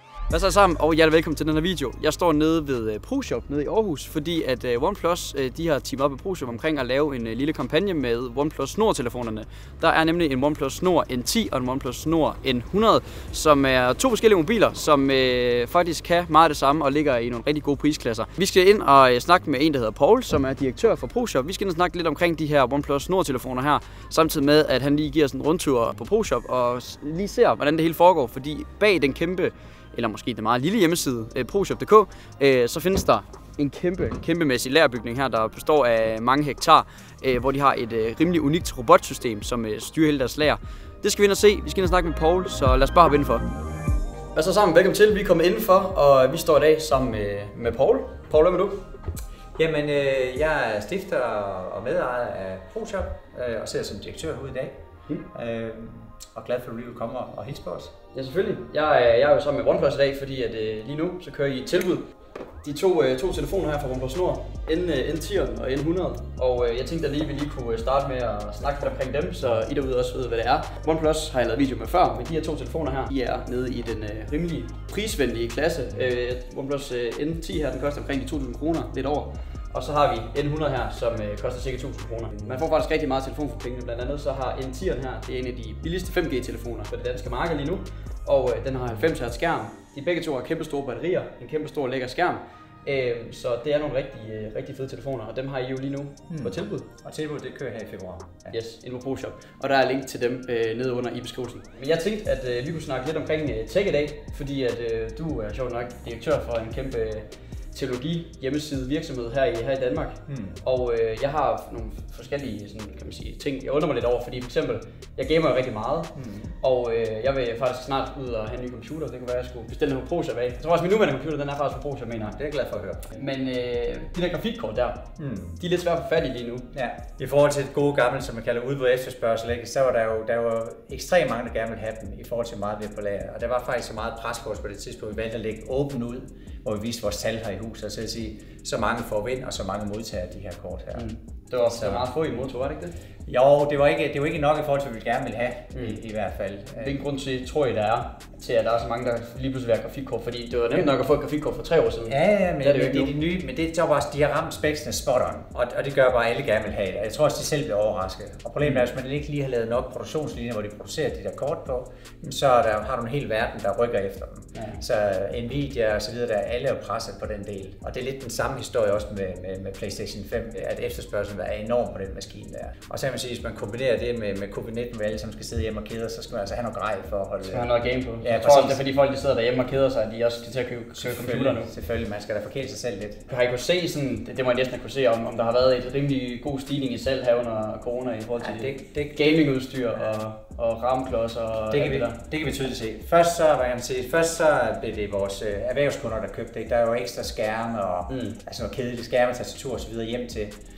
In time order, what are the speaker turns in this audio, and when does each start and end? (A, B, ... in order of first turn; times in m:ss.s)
0:00.3-0:43.5 A
0:44.3-0:48.8 A
0:49.5-0:54.8 B
0:55.3-0:57.9 B
0:58.1-1:02.1 A
1:02.6-1:36.8 A
1:36.3-1:38.5 B
1:38.5-2:02.4 A
1:50.3-1:50.6 B
1:56.2-1:56.5 B
2:02.3-2:03.1 B
2:03.1-2:05.0 A
2:05.2-2:05.6 B
2:05.6-2:06.7 A
2:06.7-2:21.1 B
2:21.0-2:22.9 A
2:21.7-2:22.0 B
2:23.2-2:27.0 B
2:26.8-2:33.1 A
2:32.1-2:57.7 B
2:44.5-2:44.8 A
2:57.4-3:01.7 A
2:58.2-2:58.8 B
3:01.0-3:03.2 B
3:03.3-3:12.2 A
3:08.4-3:09.4 B
3:11.7-3:20.5 B
3:18.1-3:18.4 A